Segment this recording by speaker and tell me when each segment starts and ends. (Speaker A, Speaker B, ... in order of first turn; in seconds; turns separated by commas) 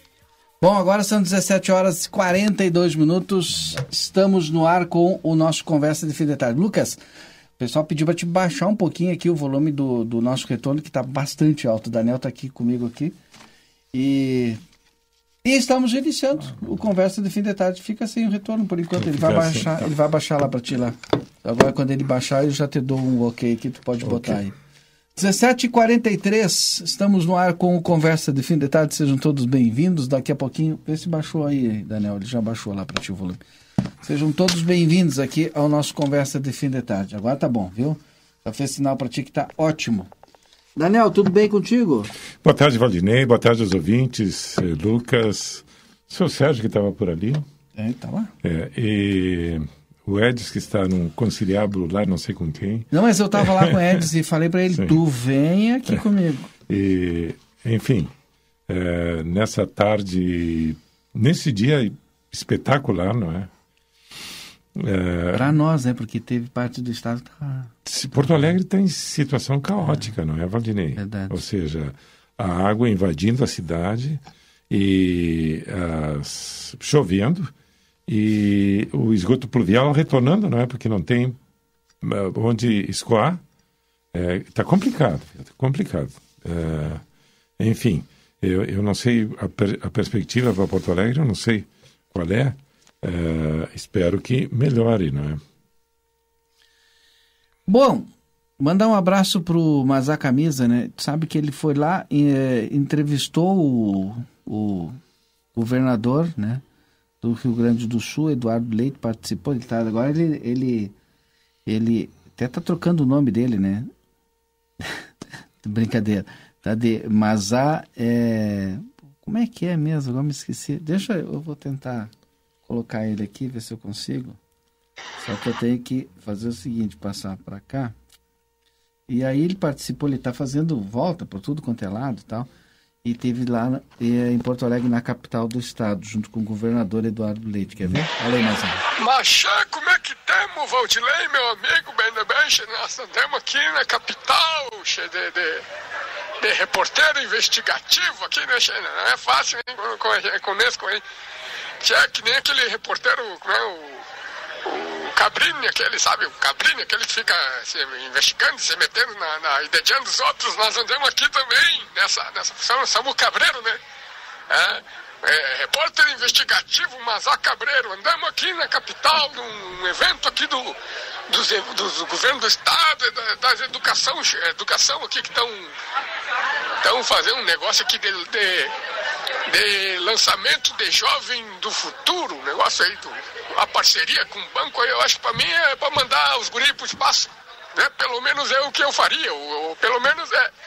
Speaker A: 0.6-7.0, Speaker A: 7.6-13.2, Speaker A: 13.9-14.6, Speaker A: 15.4-24.5, Speaker B: 19.1-19.7, Speaker A: 25.2-33.4, Speaker A: 34.0-40.1, Speaker A: 40.8-42.1, Speaker B: 42.4-47.5, Speaker A: 47.8-48.3, Speaker B: 48.4-52.9, Speaker A: 52.9-56.5, Speaker B: 53.4-53.8, Speaker B: 56.7-58.1, Speaker B: 58.7-63.5, Speaker B: 64.8-65.5, Speaker A: 65.3-67.7, Speaker B: 67.8-77.5, Speaker A: 71.0-71.4, Speaker B: 78.1-81.4, Speaker B: 82.0-83.4, Speaker B: 84.1-87.0, Speaker B: 87.6-95.4, Speaker A: 97.7-105.0, Speaker A: 105.5-106.6, Speaker A: 107.2-110.9, Speaker A: 111.7-113.9, Speaker A: 115.6-122.1, Speaker A: 122.7-124.4, Speaker A: 125.2-127.9, Speaker A: 129.1-132.5, Speaker A: 133.0-138.8, Speaker C: 139.0-145.7, Speaker C: 146.4-151.0, Speaker C: 151.8-154.0, Speaker C: 154.7-163.8, Speaker C: 164.5-170.8, Speaker C: 171.3-175.8, Speaker C: 176.8-178.7, Speaker C: 179.5-190.5